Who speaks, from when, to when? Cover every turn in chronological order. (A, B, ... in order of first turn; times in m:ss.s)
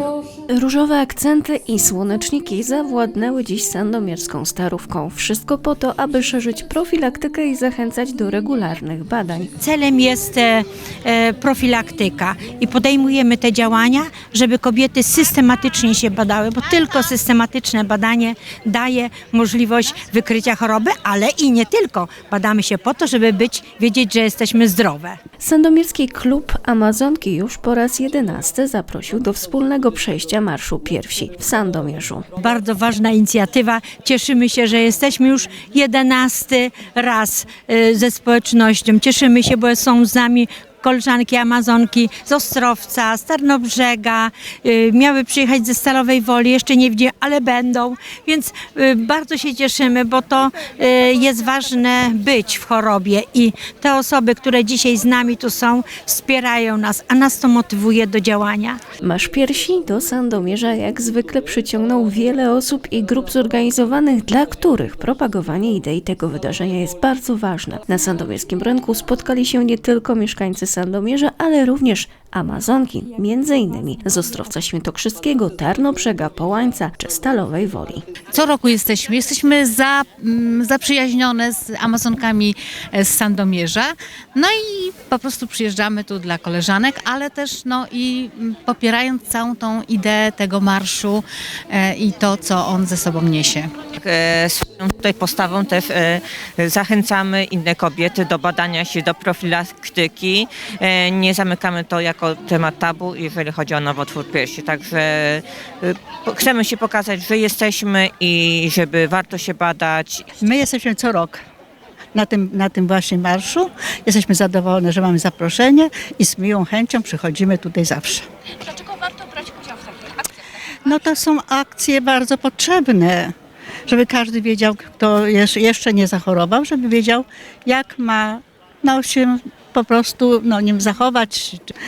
0:00.5-0:09.5 A
0:09.6-0:25.2 B
0:25.4-0:32.3 A
0:32.4-0:58.8 B
0:59.0-1:18.0 A
1:18.3-1:33.7 C
1:34.0-1:50.2 D
1:48.2-1:49.0 B
1:50.4-1:51.4 E
1:52.1-1:58.2 E
2:00.8-2:03.3 E
2:03.9-2:11.7 E